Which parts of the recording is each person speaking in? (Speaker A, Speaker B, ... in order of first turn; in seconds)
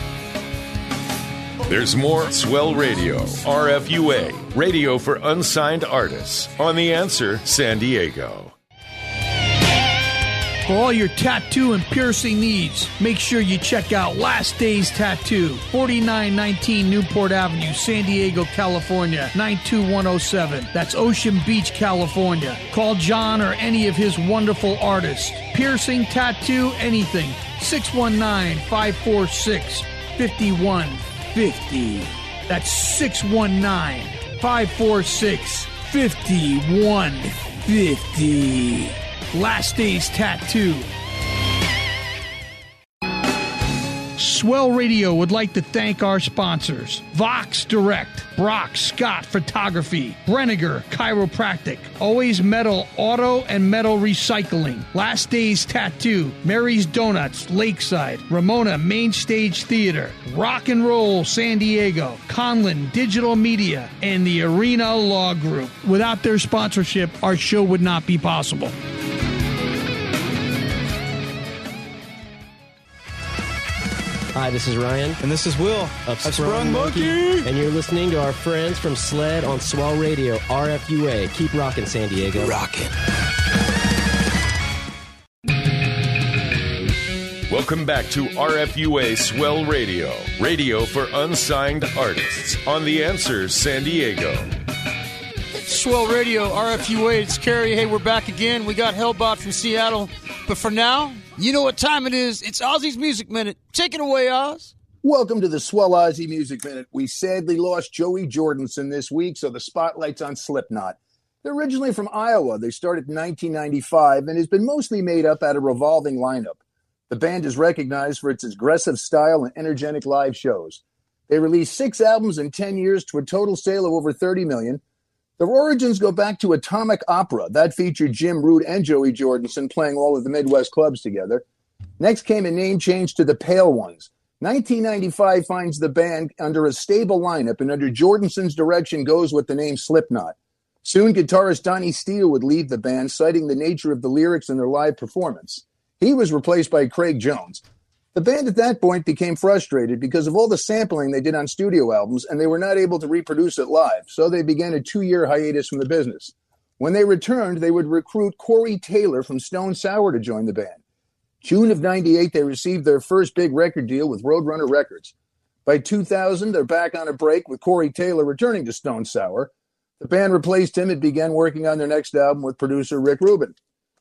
Speaker A: 1.7-8.5, 87.5-94.5
Speaker B: 10.7-40.9, 44.2-68.7
Speaker C: 74.3-75.2, 75.9-82.7
Speaker D: 75.3-77.0, 82.4-82.8
Speaker E: 95.5-104.7
Speaker F: 105.0-116.6, 117.1-124.8, 125.4-131.4, 132.0-147.6, 148.1-160.8, 161.4-165.1, 165.7-173.6